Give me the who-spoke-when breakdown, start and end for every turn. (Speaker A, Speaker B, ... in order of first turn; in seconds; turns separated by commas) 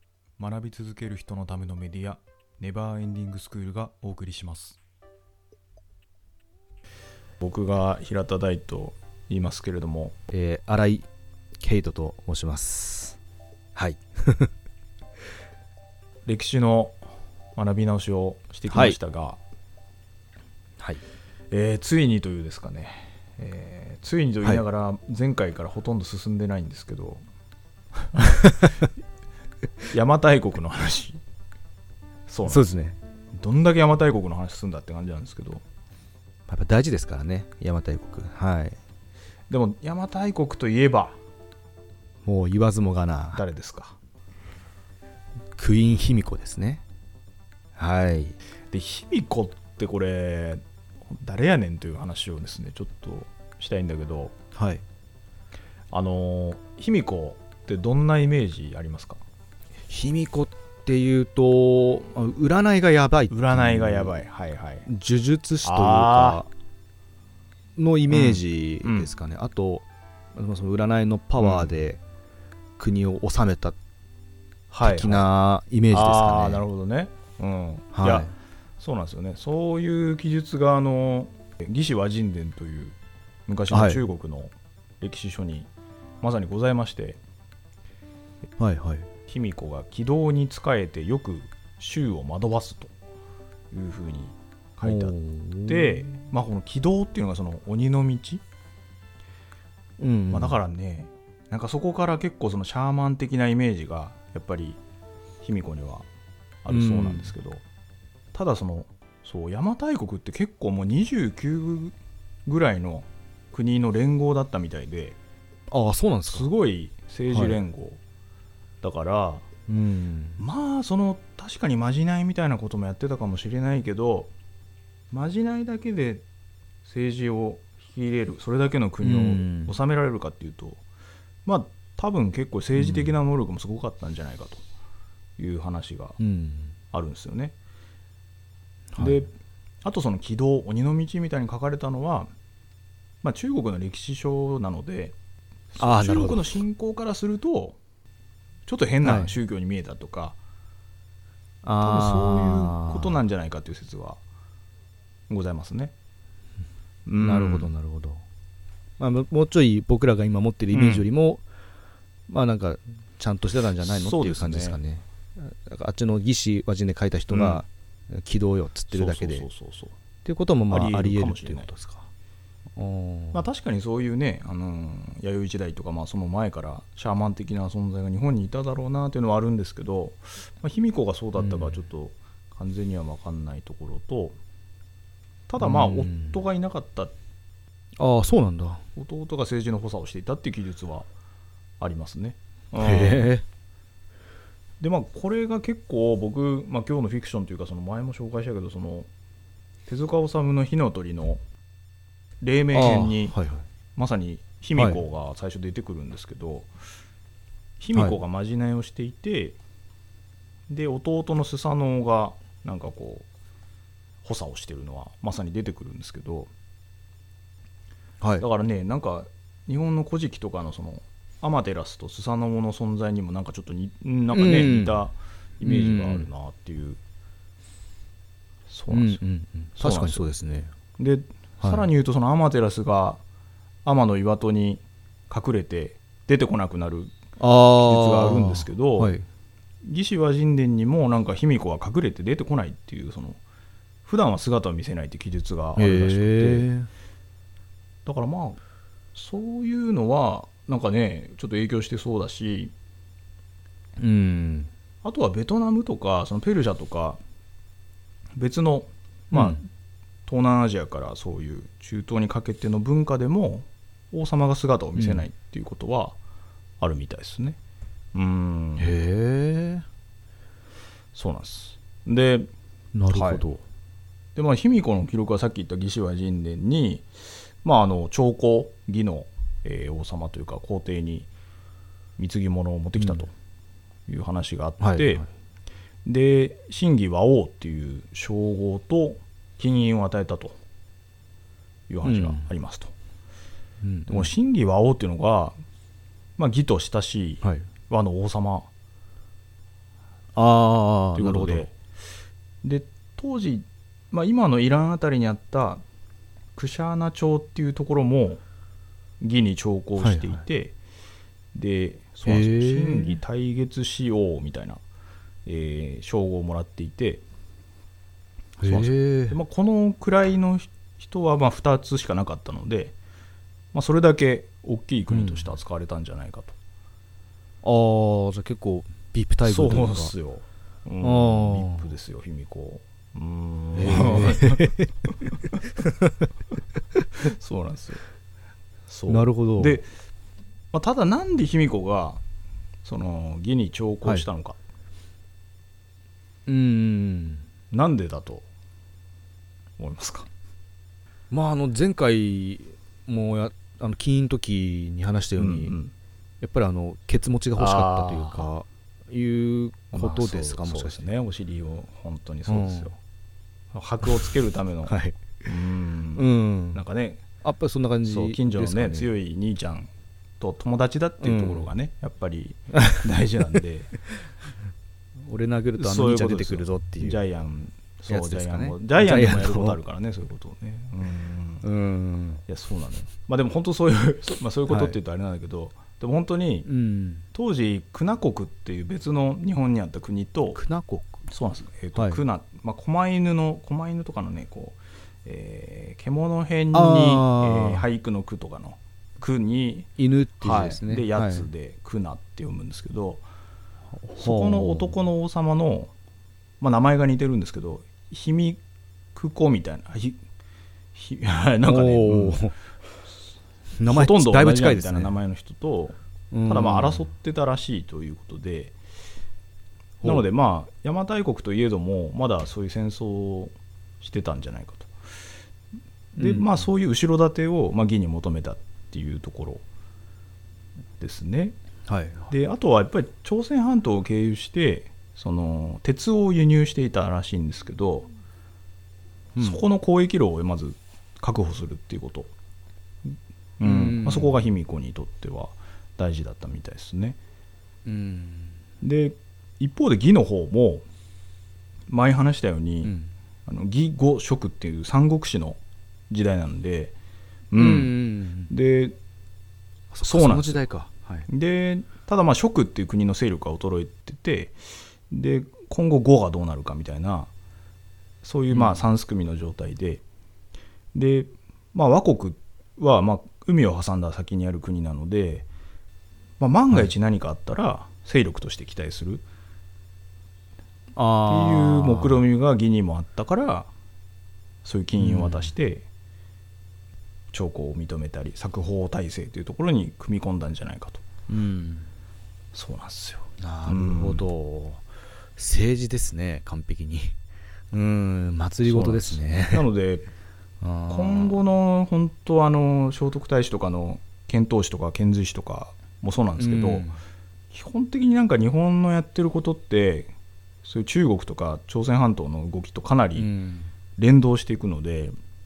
Speaker A: 0.4-4.8, Speaker A: 7.4-10.2, Speaker B: 10.3-11.1, Speaker B: 11.6-13.2, Speaker B: 13.8-14.5, Speaker A: 16.2-17.0, Speaker A: 17.6-19.4, Speaker B: 18.7-18.9, Speaker A: 21.5-27.2, Speaker A: 29.9-31.2, Speaker A: 32.3-32.6, Speaker B: 32.5-33.0, Speaker A: 33.4-35.6, Speaker B: 36.5-38.8, Speaker A: 39.5-41.2, Speaker B: 42.2-43.4, Speaker A: 43.3-43.9, Speaker B: 45.5-46.8, Speaker B: 47.8-48.4, Speaker A: 48.7-54.3, Speaker B: 54.5-54.8, Speaker A: 55.9-59.2, Speaker B: 59.9-64.2, Speaker A: 63.3-64.9, Speaker B: 64.9-66.5, Speaker A: 65.6-66.4, Speaker B: 67.8-72.0, Speaker A: 68.1-69.1, Speaker A: 71.4-71.8, Speaker B: 72.8-73.8, Speaker A: 74.7-75.3, Speaker B: 74.8-76.6, Speaker A: 75.9-82.9, Speaker B: 77.9-78.3, Speaker A: 83.5-85.7, Speaker B: 83.7-84.0, Speaker A: 86.2-87.2, Speaker B: 88.6-89.1, Speaker A: 89.3-92.9, Speaker A: 93.7-98.4, Speaker B: 94.8-96.1, Speaker B: 100.0-100.6, Speaker A: 100.3-104.8, Speaker A: 105.4-106.1, Speaker A: 106.6-107.6, Speaker B: 106.7-107.3, Speaker A: 108.3-111.9, Speaker A: 112.5-115.2, Speaker B: 115.7-116.5, Speaker A: 116.3-118.0, Speaker B: 117.3-117.6, Speaker A: 118.8-119.5, Speaker B: 119.7-120.4, Speaker A: 120.4-124.3, Speaker A: 125.1-126.2, Speaker A: 126.8-130.8, Speaker B: 129.0-129.7, Speaker A: 131.4-134.6, Speaker B: 132.8-133.1, Speaker A: 135.4-136.2, Speaker B: 136.2-136.7, Speaker A: 136.9-137.5, Speaker B: 138.9-139.2, Speaker A: 139.0-139.3, Speaker A: 139.8-142.3, Speaker A: 143.2-145.1, Speaker A: 145.7-147.8, Speaker B: 145.8-146.6, Speaker A: 148.7-150.4, Speaker B: 149.0-149.3, Speaker B: 151.6-153.2, Speaker A: 151.8-154.2, Speaker A: 155.3-155.9, Speaker A: 157.1-157.7, Speaker B: 157.2-158.2, Speaker B: 159.0-161.4, Speaker A: 160.7-161.0, Speaker B: 162.3-169.4, Speaker A: 163.8-164.8, Speaker A: 167.3-167.6, Speaker A: 168.9-169.9, Speaker B: 170.2-172.1, Speaker A: 170.7-171.7, Speaker B: 172.8-173.4, Speaker A: 173.3-184.4, Speaker B: 181.4-181.8, Speaker A: 185.5-187.1, Speaker B: 185.6-186.4, Speaker B: 188.0-188.8, Speaker A: 188.9-191.1, Speaker A: 191.8-193.3, Speaker B: 192.8-193.4, Speaker A: 194.8-199.1, Speaker A: 199.9-201.4, Speaker A: 202.4-203.3, Speaker B: 202.7-203.6, Speaker A: 203.9-206.7, Speaker A: 207.8-209.6, Speaker A: 210.7-213.3, Speaker A: 214.2-216.5, Speaker A: 218.4-227.0, Speaker B: 224.3-225.1, Speaker B: 225.6-226.3, Speaker A: 228.7-229.2, Speaker B: 228.9-230.7, Speaker A: 229.8-230.3, Speaker A: 231.0-233.2, Speaker B: 231.6-231.8, Speaker A: 233.8-237.2, Speaker B: 237.4-239.2, Speaker A: 237.7-239.2, Speaker A: 239.8-243.4, Speaker A: 244.0-246.7, Speaker B: 245.8-246.9, Speaker A: 248.0-248.6, Speaker A: 249.1-252.7, Speaker B: 254.0-254.7, Speaker A: 255.0-257.2, Speaker A: 258.4-259.6, Speaker B: 259.3-259.6, Speaker A: 260.2-266.2, Speaker B: 265.0-265.2, Speaker A: 266.8-267.6, Speaker A: 268.1-268.9, Speaker B: 268.8-269.8, Speaker A: 271.1-272.5, Speaker B: 272.9-273.6, Speaker A: 273.1-273.4, Speaker A: 274.3-277.1, Speaker A: 277.6-281.3, Speaker A: 282.2-283.3, Speaker A: 284.1-285.2, Speaker B: 284.8-285.2, Speaker A: 286.0-290.6, Speaker A: 291.9-292.9, Speaker B: 292.0-292.4, Speaker B: 293.8-294.3, Speaker A: 294.1-295.6, Speaker A: 296.4-298.7, Speaker B: 300.3-301.7, Speaker A: 301.1-301.7, Speaker A: 302.6-305.8, Speaker A: 306.6-308.4, Speaker A: 309.2-310.8, Speaker B: 310.0-310.4, Speaker A: 311.5-314.8, Speaker B: 312.2-313.2, Speaker A: 315.4-317.2, Speaker B: 318.6-319.4, Speaker A: 318.6-322.9, Speaker A: 323.7-326.6, Speaker B: 325.1-325.4, Speaker B: 327.6-330.1, Speaker A: 329.4-334.8, Speaker B: 331.0-331.9, Speaker B: 333.8-334.9, Speaker B: 335.4-336.1, Speaker A: 337.2-338.0, Speaker A: 338.9-339.9, Speaker B: 339.1-339.8, Speaker A: 340.7-342.2, Speaker A: 342.8-344.6, Speaker B: 346.4-347.4, Speaker A: 347.7-348.4, Speaker A: 349.8-350.3, Speaker B: 351.3-355.8, Speaker A: 355.4-355.9, Speaker B: 356.4-361.1, Speaker A: 357.6-358.5, Speaker A: 359.9-362.9, Speaker B: 362.5-362.9, Speaker A: 363.7-367.2, Speaker B: 364.9-365.3, Speaker B: 366.1-366.8, Speaker B: 367.4-369.1, Speaker A: 368.0-373.9, Speaker B: 371.2-371.7, Speaker B: 375.2-377.2, Speaker A: 375.8-381.7, Speaker B: 378.1-379.8, Speaker B: 381.6-382.4, Speaker A: 382.5-386.7, Speaker B: 384.7-384.9, Speaker B: 386.6-387.2, Speaker A: 387.3-390.6, Speaker B: 390.5-391.2, Speaker A: 391.3-403.2, Speaker B: 391.9-392.2, Speaker B: 396.7-397.8, Speaker B: 400.0-401.5, Speaker B: 404.0-404.9, Speaker A: 404.2-405.9, Speaker A: 406.6-408.6, Speaker A: 409.1-410.2, Speaker A: 410.9-412.5, Speaker B: 411.6-412.5, Speaker B: 413.8-415.1, Speaker A: 413.9-418.8, Speaker B: 416.3-417.0, Speaker A: 420.0-424.9, Speaker A: 426.1-429.6, Speaker B: 426.2-426.6, Speaker A: 431.0-431.6, Speaker B: 431.9-432.3, Speaker A: 432.3-438.1, Speaker B: 439.4-439.6, Speaker A: 439.4-442.3, Speaker A: 443.1-447.2, Speaker B: 443.6-444.3, Speaker B: 447.9-448.6, Speaker A: 448.8-450.8, Speaker A: 451.9-452.9, Speaker B: 452.8-453.1, Speaker A: 453.5-455.6, Speaker A: 456.1-456.9, Speaker A: 457.5-458.9, Speaker B: 457.5-458.5, Speaker B: 459.9-461.3, Speaker A: 460.0-460.6, Speaker A: 461.3-467.3, Speaker A: 468.2-470.0, Speaker B: 468.5-468.8, Speaker A: 470.9-475.5, Speaker A: 476.4-479.2, Speaker B: 480.9-482.2, Speaker A: 481.3-483.7, Speaker A: 484.6-485.9, Speaker B: 485.0-485.5, Speaker A: 487.3-491.0, Speaker B: 491.3-491.9, Speaker A: 492.5-494.2, Speaker B: 493.4-494.8, Speaker B: 495.4-497.1, Speaker B: 497.7-499.7, Speaker A: 498.6-500.1, Speaker B: 500.6-501.4, Speaker A: 500.9-506.9, Speaker B: 506.4-507.0, Speaker A: 507.5-510.1, Speaker A: 510.6-513.3, Speaker B: 513.1-513.7, Speaker A: 514.0-515.1